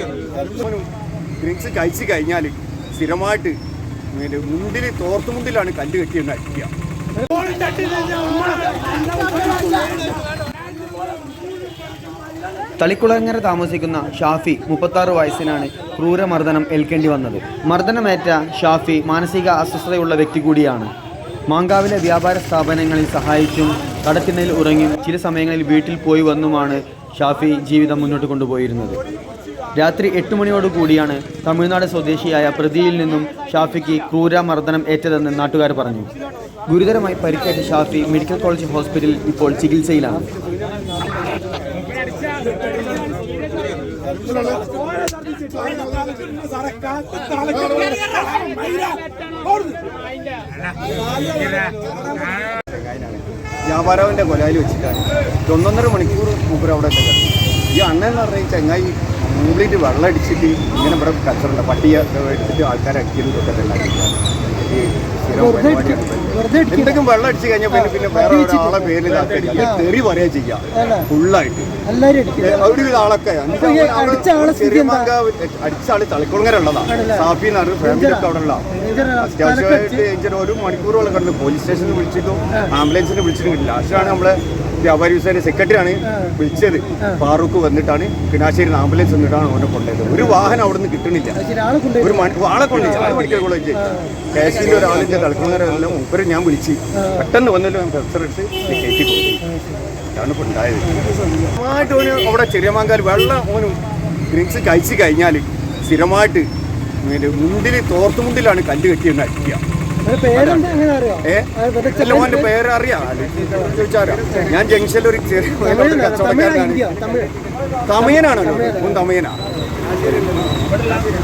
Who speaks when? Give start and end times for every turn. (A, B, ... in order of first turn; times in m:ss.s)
0:00.4-0:00.9 A
0:01.4-0:03.6 A
0:04.1-0:06.7 A
0:07.2-0:10.2 B
0:12.8-0:20.9 C
0:21.5-0:29.0 C
0:29.8-0:36.1 C
0:36.7-0:40.3 C
0:44.4-0:44.8 B
0:45.5-0:46.1 B
0:46.8-0:49.0 B
0:52.6-1:11.7 A
1:05.4-1:07.0 B
1:07.8-1:09.0 B
1:09.6-1:09.9 B
1:10.8-1:11.1 B
1:11.9-1:12.7 B
1:12.4-1:18.6 A
1:13.6-1:15.1 B
1:16.9-1:17.3 B
1:17.8-1:18.3 B
1:18.8-1:20.0 B
1:19.2-1:31.4 A
1:31.4-1:32.3 B
1:32.0-1:39.4 A
1:32.8-1:34.0 B
1:40.1-1:43.8 A
1:44.3-1:46.5 A
1:47.0-1:49.6 A
1:50.0-1:52.5 B
1:50.3-1:56.9 A
1:55.6-1:57.3 B
1:57.9-1:59.4 A
1:58.3-1:59.0 B
2:00.0-2:00.3 A